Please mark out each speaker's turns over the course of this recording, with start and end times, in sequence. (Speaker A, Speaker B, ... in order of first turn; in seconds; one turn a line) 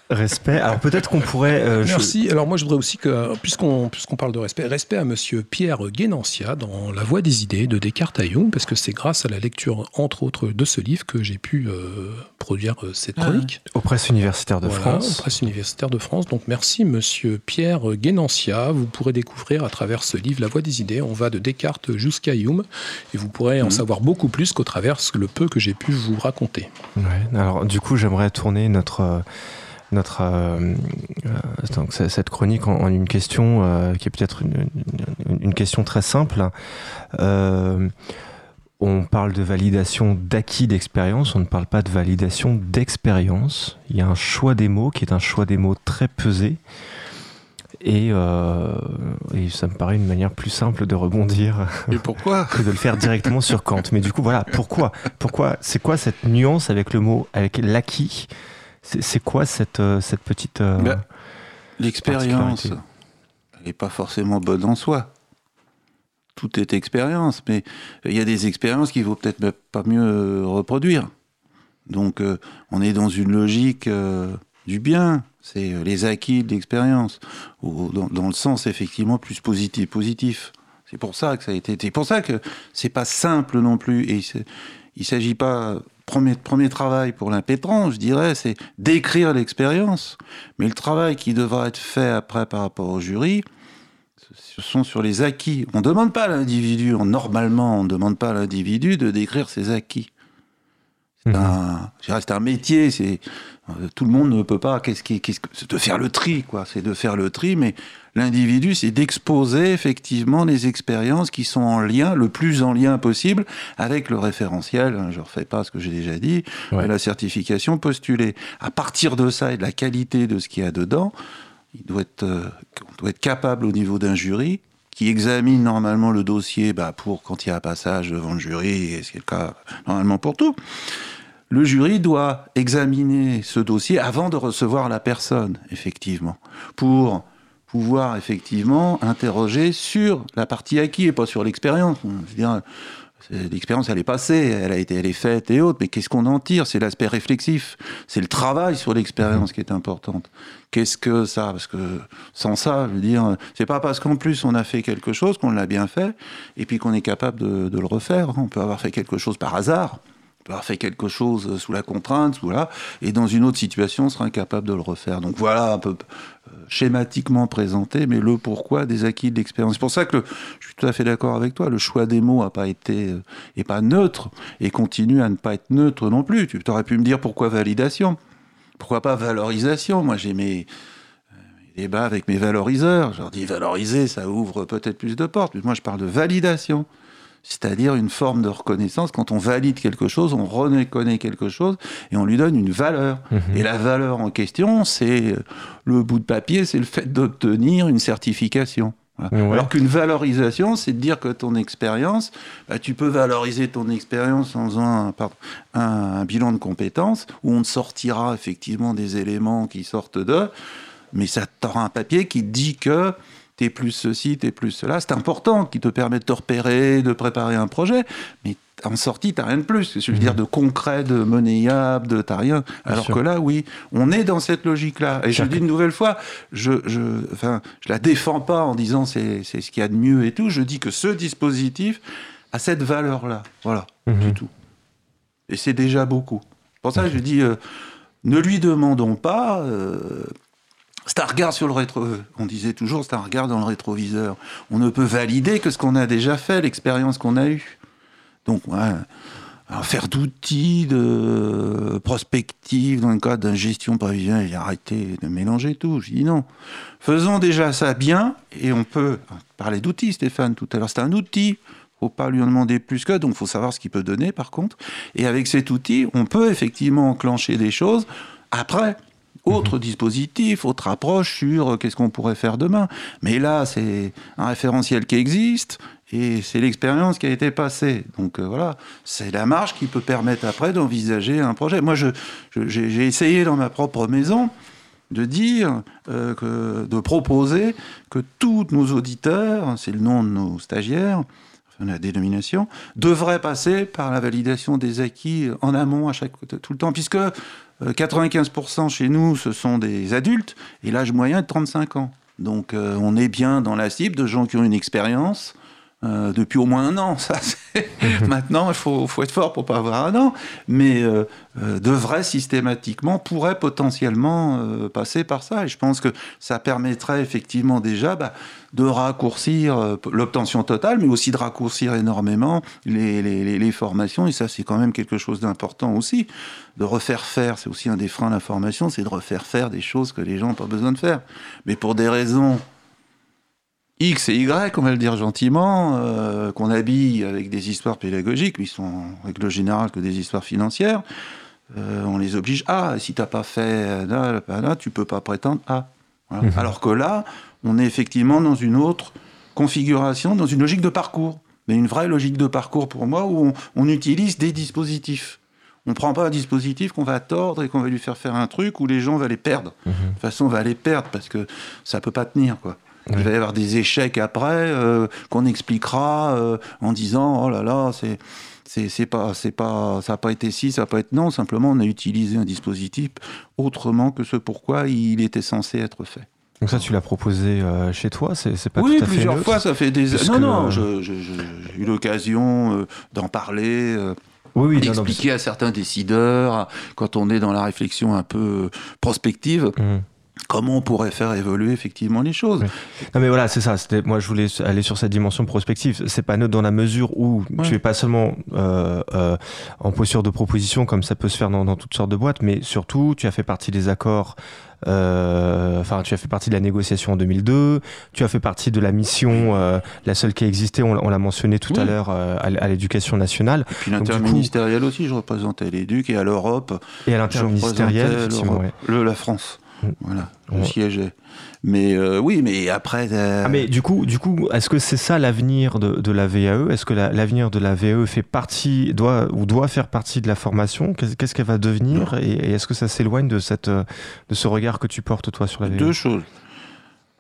Speaker A: 0.1-2.1
Speaker B: 1.8-13.6
Speaker A: 13.7-15.3
Speaker B: 14.6-26.7
Speaker A: 27.0-29.3
Speaker A: 29.9-36.5
Speaker A: 37.1-37.9
Speaker A: 38.8-46.6
Speaker A: 47.8-58.3
Speaker C: 51.9-52.6
Speaker A: 58.8-61.0
Speaker C: 61.8-62.8
Speaker A: 62.1-62.8
Speaker C: 63.6-65.1
Speaker C: 66.4-71.1
Speaker C: 71.9-84.5
Speaker C: 85.0-93.5
Speaker C: 94.4-100.1
Speaker C: 101.2-121.1
Speaker A: 101.3-101.6
Speaker C: 121.8-130.6
Speaker C: 131.5-142.6
Speaker C: 143.2-178.2
Speaker C: 178.8-180.7
Speaker C: 181.7-186.9
Speaker C: 187.4-210.5
Speaker A: 193.3-193.6
Speaker A: 199.3-199.7
Speaker C: 211.1-234.5
Speaker A: 222.9-223.2
Speaker A: 225.3-225.6
Speaker A: 234.1-234.4
Speaker C: 235.5-237.6
Speaker C: 238.2-240.3
Speaker C: 241.1-247.8
Speaker C: 248.5-249.1
Speaker C: 249.7-256.5
Speaker C: 257.0-284.5
Speaker C: 285.1-291.3
Speaker C: 291.8-332.6
Speaker C: 334.0-341.0
Speaker C: 341.7-376.8
Speaker A: 359.9-360.1
Speaker A: 376.6-380.9
Speaker C: 378.8-384.2
Speaker A: 384.6-385.2
Speaker C: 384.8-389.8
Speaker A: 389.8-390.1
Speaker C: 390.5-392.7
Speaker A: 392.6-414.5
Speaker C: 413.7-423.7
Speaker A: 417.1-418.7
Speaker A: 423.4-435.9
Speaker C: 435.6-436.3